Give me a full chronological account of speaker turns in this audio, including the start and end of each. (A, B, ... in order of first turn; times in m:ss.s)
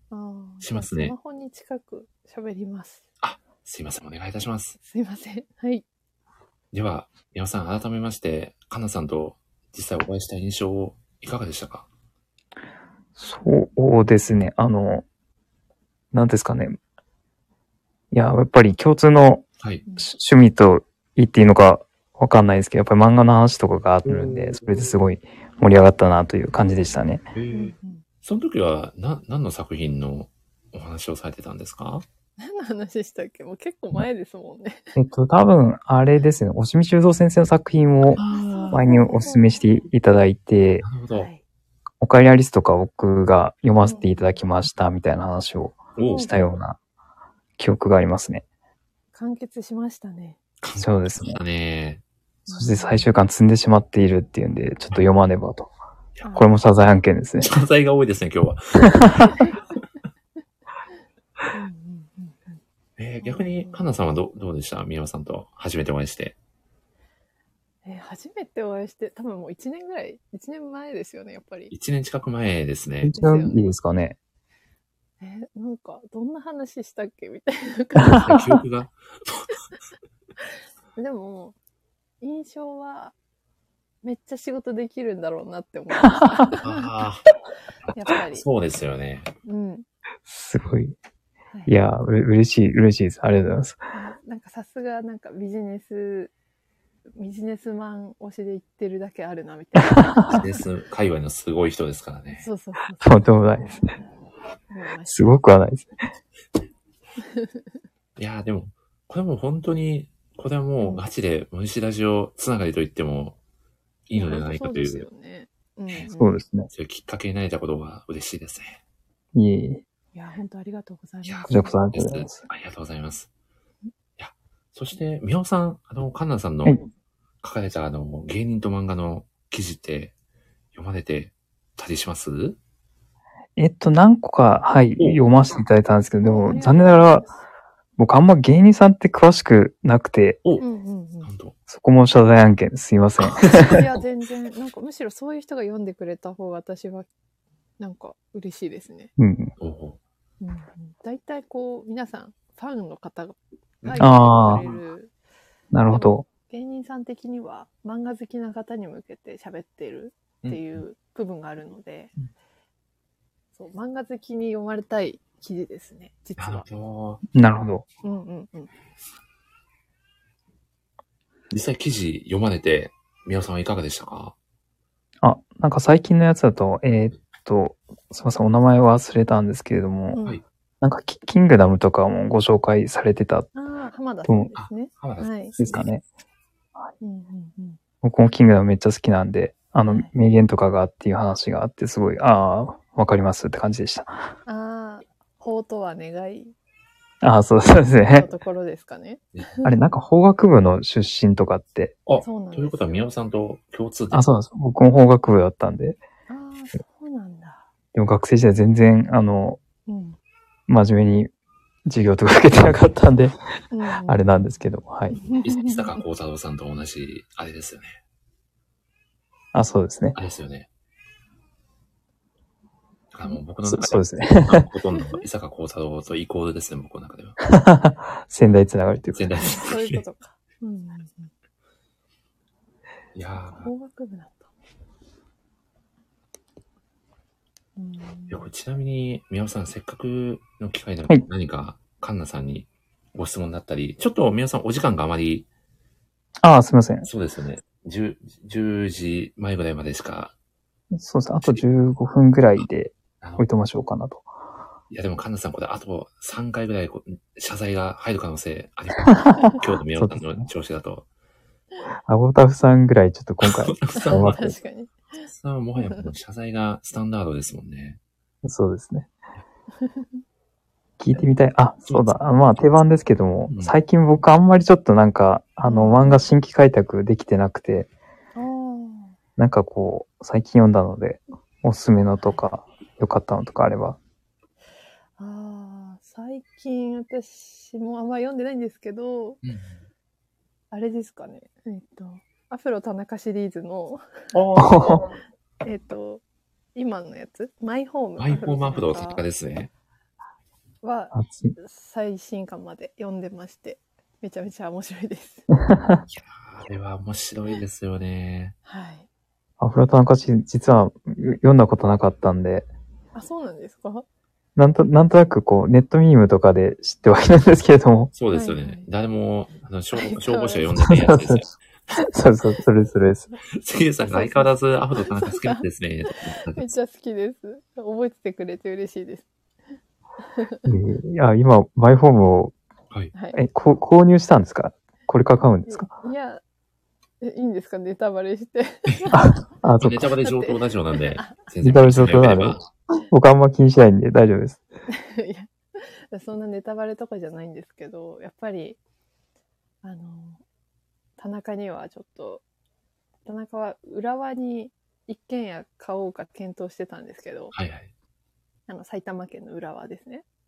0:00.1-0:03.1 A
0:00.6-0:01.2 B
0:03.2-0:04.8 B
0:04.8-0:05.8 A
0:06.7-0:11.9 B
0:13.2-0:15.0 C
0:16.1-0:16.8 C
0:18.1-0:19.4 C
0:20.0-0:27.3 C
0:24.1-0:24.6 B
0:27.3-0:32.0 B
0:27.5-0:28.0 A
0:32.4-0:34.9 A
0:35.0-0:38.2 C
0:38.2-0:39.6 A
0:38.2-0:38.8 B
0:38.7-0:40.8 C
0:40.8-0:41.3 B
0:41.2-0:41.4 A
0:42.0-0:46.8 C
0:43.8-0:44.4 A
0:46.0-0:46.3 B
0:46.0-0:46.5 A
0:47.6-0:48.4 C
0:49.2-0:50.4 A
0:50.6-0:52.0 B
0:50.8-0:51.4 C
0:52.5-0:53.1 A
0:52.5-0:55.7 C
0:56.2-0:56.6 A
0:56.3-0:57.5 C
0:57.4-0:59.4 B
0:58.8-0:59.2 C
0:59.2-0:59.6 A
1:01.5-1:02.6 A
1:03.0-1:06.4 B
1:03.2-1:03.8 A
1:07.8-1:11.7 A
1:11.7-1:13.2 B
1:13.0-1:14.2 C
1:13.2-1:13.7 A
1:15.2-1:18.4 A
1:18.0-1:18.6 C
1:18.2-1:19.6 B
1:21.0-1:21.6 A
1:22.2-1:23.1 A
1:24.0-1:26.9 A
1:26.6-1:27.3 B
1:27.9-1:28.5 A
1:28.3-1:29.3 B
1:29.4-1:29.9 A
1:30.3-1:31.0 C
1:31.7-1:33.8 C
1:33.9-1:36.3 A
1:37.2-1:40.5 A
1:39.8-1:40.4 C
1:40.3-1:42.5 B
1:42.4-1:43.8 A
1:43.0-1:43.9 C
1:44.7-1:45.4 A
1:45.1-1:46.0 C
1:47.2-1:47.8 A
1:48.2-1:53.4 B
1:54.1-1:55.1 B
1:54.1-1:56.4 A
1:56.2-1:56.7 C
1:56.7-1:58.8 B
1:59.3-1:59.8 C
2:00.1-2:01.8 A
2:01.2-2:03.3 B
2:01.5-2:02.4 C
2:04.2-2:06.8 B
2:07.4-2:10.1 B
2:10.7-2:12.6 B
2:13.6-2:17.3 C
2:16.2-2:17.4 A
2:18.0-2:20.4 C
2:20.6-2:21.3 A
2:21.2-2:21.6 B
2:21.7-2:23.8 C
2:23.2-2:23.8 B
2:23.5-2:27.1 A
2:27.8-2:29.1 A
2:29.2-2:29.5 C
2:29.6-2:30.0 B
2:30.4-2:35.1 A
2:33.8-2:34.8 B
2:34.0-2:34.7 C
2:35.7-2:36.3 C
2:35.9-2:42.1 A
2:40.4-2:40.8 B
2:43.6-2:46.7 A
2:46.4-2:47.2 B
2:47.3-2:47.8 C
2:48.0-2:48.7 A
2:51.5-2:54.4 B
2:55.2-3:00.2 C
3:00.1-3:00.4 A
3:00.8-3:03.5 C
3:03.5-3:05.6 A
3:04.3-3:04.5 C
3:04.6-3:05.8 B
3:05.6-3:06.0 C
3:07.0-3:07.8 A
3:08.0-3:14.2 C
3:09.9-3:10.1 A
3:14.5-3:16.6 A
3:17.2-3:18.3 C
3:18.1-3:19.8 A
3:19.6-3:22.0 C
3:22.1-3:24.2 B
3:22.2-3:23.1 A
3:24.1-3:26.0 C
3:26.3-3:27.7 A
3:28.0-3:29.6 C
3:29.9-3:30.2 A
3:30.7-3:31.3 C
3:31.9-3:33.4 C
3:33.7-3:34.2 A
3:34.1-3:35.2 C
3:35.1-3:36.0 A
3:35.4-3:38.0 B
3:39.5-3:40.2 C
3:40.2-3:40.7 B
3:43.1-3:47.4 B
3:43.7-3:44.7 C
3:47.4-3:49.3 C
3:49.1-3:50.0 B
3:49.4-3:51.3 A
3:53.2-3:53.7 B
3:53.4-3:54.5 A
3:57.8-3:58.5 A
3:58.3-4:05.5 B
4:06.4-4:07.1 C
4:07.0-4:10.3 B
4:10.9-4:14.2 C
4:13.2-4:13.5 B
4:14.9-4:21.1 B
4:19.1-4:20.5 C
4:22.1-4:24.5 C
4:23.4-4:24.5 B
4:24.0-4:25.3 A
4:25.3-4:28.0 B
4:25.8-4:26.1 A
4:28.4-4:29.1 C
4:29.8-4:30.2 A
4:31.0-4:37.9 C
4:33.5-4:33.8 B
4:35.6-4:36.2 A
4:38.4-4:39.2 A
4:39.4-4:44.0 C
4:45.2-4:49.4 A
4:49.4-4:49.8 B
4:50.7-4:54.0 A
4:54.3-4:55.1 B
4:54.5-4:55.1 C
4:55.6-4:56.2 A
4:56.8-4:59.2 A
4:58.2-4:59.7 B
5:00.8-5:05.5 A
5:01.1-5:01.5 C
5:05.7-5:06.0 C
5:06.1-5:08.6 B
5:08.6-5:09.1 A
5:09.6-5:12.7 C
5:13.2-5:14.1 A
5:14.6-5:18.1 C
5:18.1-5:21.5 B
5:18.3-5:18.9 A
5:19.9-5:20.8 A
5:20.8-5:21.4 C
5:22.0-5:23.3 C
5:23.6-5:26.8 B
5:24.0-5:29.3 A
5:30.3-5:30.7 A
5:30.6-5:32.6 C
5:33.1-5:33.4 A
5:33.3-5:35.9 C
5:35.7-5:36.4 A
5:37.2-5:39.3 A
5:39.1-5:40.1 C
5:39.8-5:42.6 B
5:40.2-5:41.5 A
5:41.6-5:44.6 C
5:44.9-5:48.8 A
5:49.8-5:50.4 A
5:51.2-5:52.4 A
5:53.3-5:57.6 A
5:57.5-5:57.9 B
5:58.7-6:00.2 A